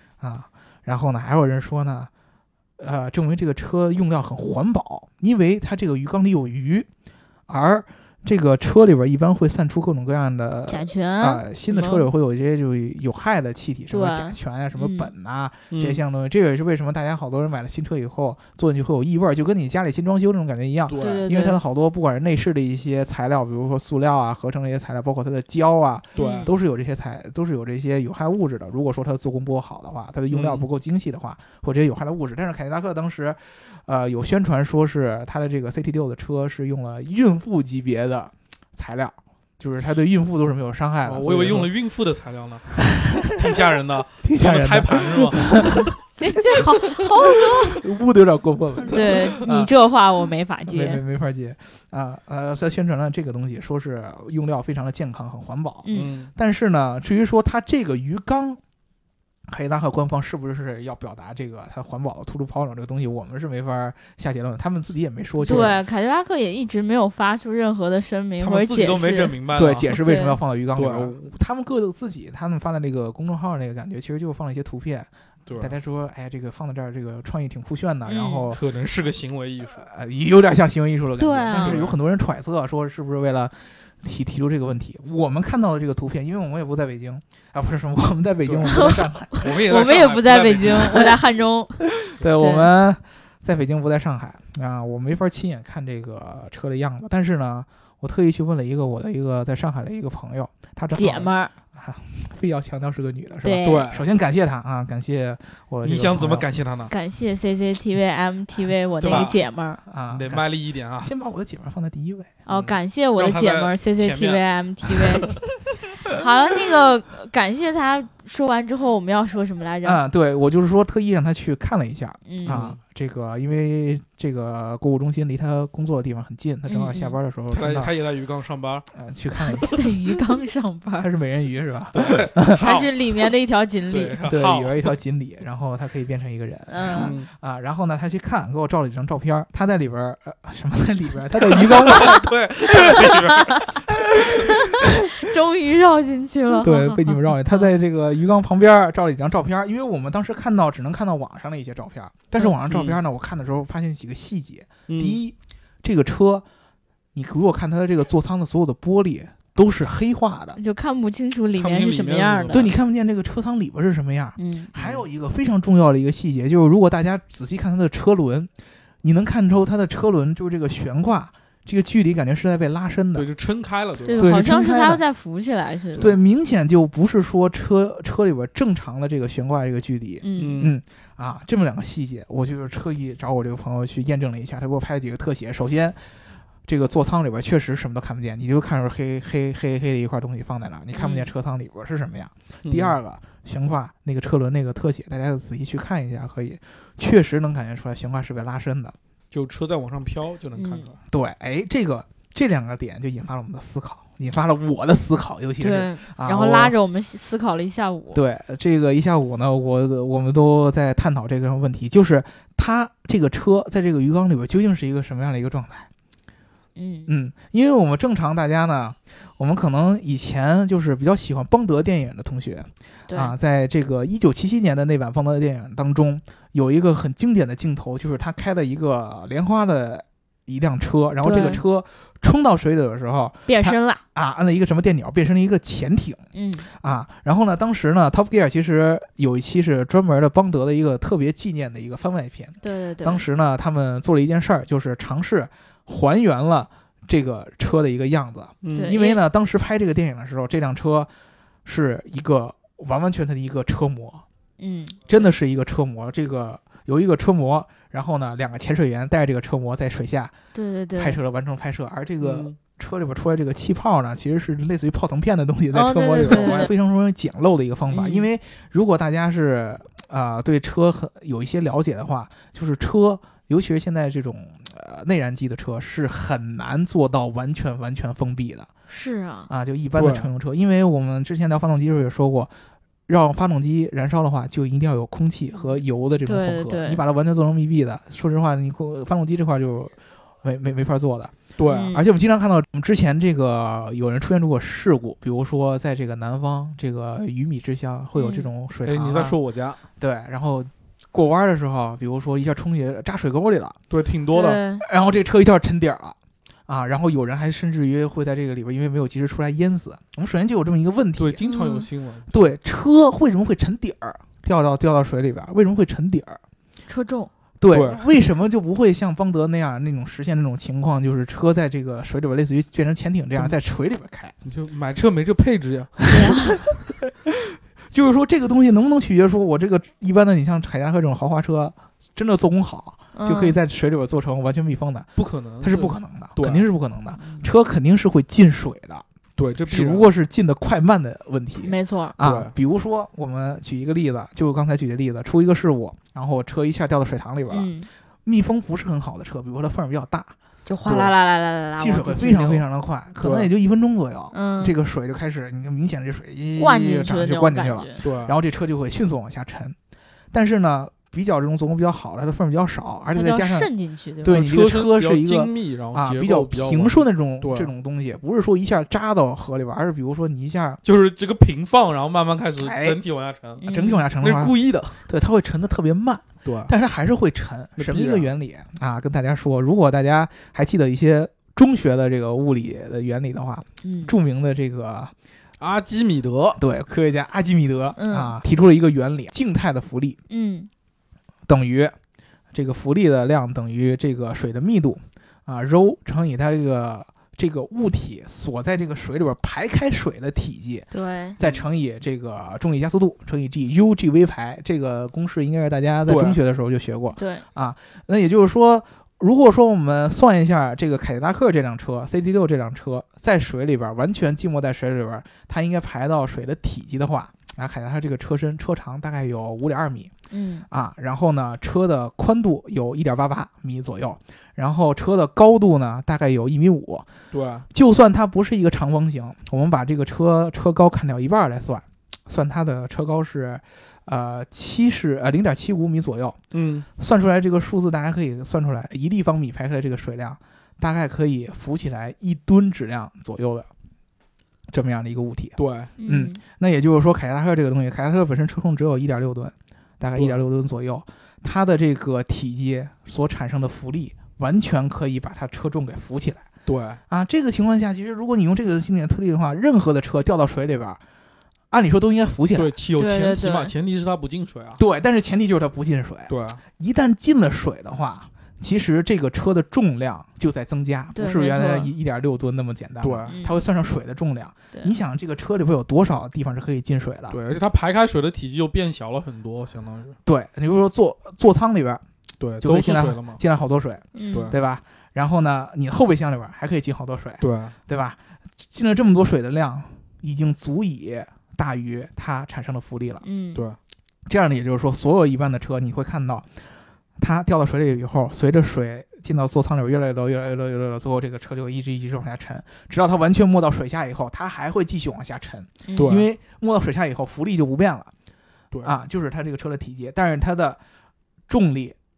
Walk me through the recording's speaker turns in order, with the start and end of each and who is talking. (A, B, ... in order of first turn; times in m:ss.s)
0:00.2-0:02.1 A
0:02.8-0:06.9 A
0:07.5-0:41.7 A
0:10.7-0:12.1 B
0:13.9-0:15.1 B
0:15.7-0:16.0 C
0:20.9-0:21.3 C
0:21.0-0:21.6 B
0:26.2-0:26.5 C
0:26.2-0:26.5 B
0:30.3-0:30.7 C
0:41.0-0:45.9 C
0:42.8-0:43.6 A
0:44.2-0:46.0 A
0:46.2-0:47.8 B
0:46.8-0:49.7 A
0:48.9-0:51.0 B
0:50.7-0:58.6 A
0:55.8-0:56.1 B
0:55.9-0:56.3 C
0:59.5-1:05.8 A
1:05.4-1:10.4 B
1:05.5-1:05.8 C
1:08.4-1:09.9 C
1:09.5-1:18.6 A
1:10.8-1:11.2 C
1:15.5-1:15.8 C
1:18.1-1:18.5 B
1:18.5-1:19.8 C
1:19.8-1:30.0 A
1:21.2-1:21.8 B
1:21.5-1:22.0 C
1:28.4-1:28.8 C
1:28.7-1:32.7 B
1:29.4-1:31.1 C
1:30.6-1:31.1 A
1:31.8-1:46.5 A
1:40.9-1:41.5 B
1:43.4-1:43.9 B
1:43.6-1:44.0 C
1:45.8-1:46.9 C
1:46.9-1:49.8 B
1:49.0-1:49.4 C
1:49.1-1:49.3 A
1:49.9-1:50.5 A
1:50.1-1:51.1 C
1:51.0-1:52.3 A
1:52.5-1:55.4 B
1:52.5-1:54.4 C
1:56.1-2:00.0 B
1:59.8-2:07.9 A
2:02.3-2:02.7 B
2:02.5-2:02.8 C
2:06.7-2:07.2 B
2:07.5-2:08.9 C
2:08.9-2:09.8 A
2:09.5-2:11.1 B
2:11.0-2:12.7 A
2:11.9-2:12.9 C
2:12.5-2:14.2 B
2:13.9-2:15.0 C
2:14.2-2:23.0 A
2:16.7-2:17.1 B
2:16.9-2:17.3 C
2:21.5-2:23.9 C
2:22.7-2:27.7 B
2:23.9-2:24.5 A
2:26.6-2:36.4 A
2:32.7-2:33.0 C
2:34.9-2:35.2 C
2:37.1-2:40.6 A
2:40.6-2:42.7 B
2:41.6-2:42.7 C
2:42.5-2:48.5 A
2:44.4-2:44.7 B
2:44.8-2:45.0 C
2:49.0-2:53.3 A
2:53.1-2:54.3 C
2:54.0-2:56.1 B
2:54.2-2:55.0 A
2:56.0-3:06.1 A
3:00.2-3:00.7 B
3:00.4-3:00.7 C
3:06.6-3:19.0 A
3:11.0-3:11.3 B
3:12.6-3:13.0 C
3:19.3-3:21.0 C
3:20.6-3:20.9 B
3:21.1-3:26.7 A
3:25.6-3:28.2 B
3:28.1-3:35.9 A
3:36.8-3:37.1 B
3:37.1-4:11.1 A
3:43.1-3:43.3 B
3:51.2-3:51.6 B
3:53.5-3:54.0 B
3:56.3-3:56.7 B
4:02.6-4:03.2 B
4:08.6-4:09.0 C
4:08.7-4:09.2 B
4:11.6-4:14.2 A
4:14.6-4:15.0 B
4:15.1-4:20.4 A
4:20.5-4:21.2 B
4:21.0-4:38.7 A
4:22.2-4:22.6 C
4:25.7-4:26.7 B
4:26.2-4:26.6 C
4:27.9-4:28.3 B
4:38.9-4:39.5 B
4:39.5-4:42.5 A
4:40.0-4:40.3 C
4:43.1-4:59.4 A
4:45.6-4:47.0 B
4:51.6-4:51.9 C
4:51.6-4:52.0 B
4:58.2-4:58.5 B
4:58.8-4:59.8 C
5:00.0-5:03.8 A
5:03.9-5:04.6 C
5:04.3-5:04.8 B
5:04.8-5:11.4 A
5:11.2-5:12.3 C
5:11.4-5:11.9 B
5:12.3-5:16.4 A
5:16.9-5:17.3 B
5:17.6-5:24.4 A
5:17.7-5:18.1 C
5:24.4-5:26.1 C
5:26.1-5:26.6 B
5:27.1-5:39.0 A
5:33.1-5:33.6 B
5:35.2-5:36.7 C
5:39.4-5:40.1 C
5:39.7-5:47.7 A
5:41.6-5:42.2 B
5:42.2-5:42.5 C
5:47.5-5:47.9 B
5:48.2-5:50.3 A
5:50.7-5:52.6 B
5:50.9-5:51.1 C
5:51.8-5:59.8 A
5:53.2-5:53.5 C
5:54.3-5:54.8 B
5:56.6-5:58.0 B
5:58.0-5:58.4 C
6:00.3-6:03.7 A
6:03.1-6:04.4 B
6:04.2-6:10.8 A
6:04.3-6:07.7 C
6:10.8-6:13.6 C
6:12.6-6:13.0 A
6:13.6-6:14.1 B
6:13.7-6:25.1 A
6:14.2-6:15.0 C
6:16.4-6:16.7 C
6:17.8-6:18.3 C
6:23.8-6:24.1 B
6:25.6-6:26.6 C
6:26.6-6:30.2 A
6:28.0-6:28.4 B
6:30.3-6:30.7 B
6:31.5-6:32.0 A
6:32.5-7:00.1 A
6:40.9-6:41.4 B
6:46.1-6:46.4 C
6:47.2-6:47.4 B
7:00.3-7:00.7 B
7:00.7-7:07.1 A
7:07.3-7:07.7 C
7:07.7-7:16.4 A
7:16.5-7:16.9 C
7:17.0-7:23.7 A
7:24.7-7:36.5 A
7:25.6-7:25.9 C
7:26.0-7:26.4 B
7:36.7-7:37.0 C
7:37.1-7:41.0 A
7:41.7-7:42.7 A
7:42.5-7:44.8 C
7:43.0-7:43.7 B
7:44.8-7:57.4 A
7:46.3-7:46.6 C
7:51.2-7:51.9 B
7:53.0-7:53.4 C
7:53.3-7:53.6 B
7:57.3-8:00.2 C
8:00.2-8:02.0 A
8:02.4-8:03.4 C
8:02.6-8:13.2 A
8:04.2-8:04.5 B
8:07.4-8:07.8 C
8:13.2-8:13.6 B
8:14.3-8:16.5 A
8:17.2-8:28.1 A
8:25.9-8:26.2 B
8:26.0-8:26.3 C
8:28.8-8:30.8 A
8:31.5-8:32.0 A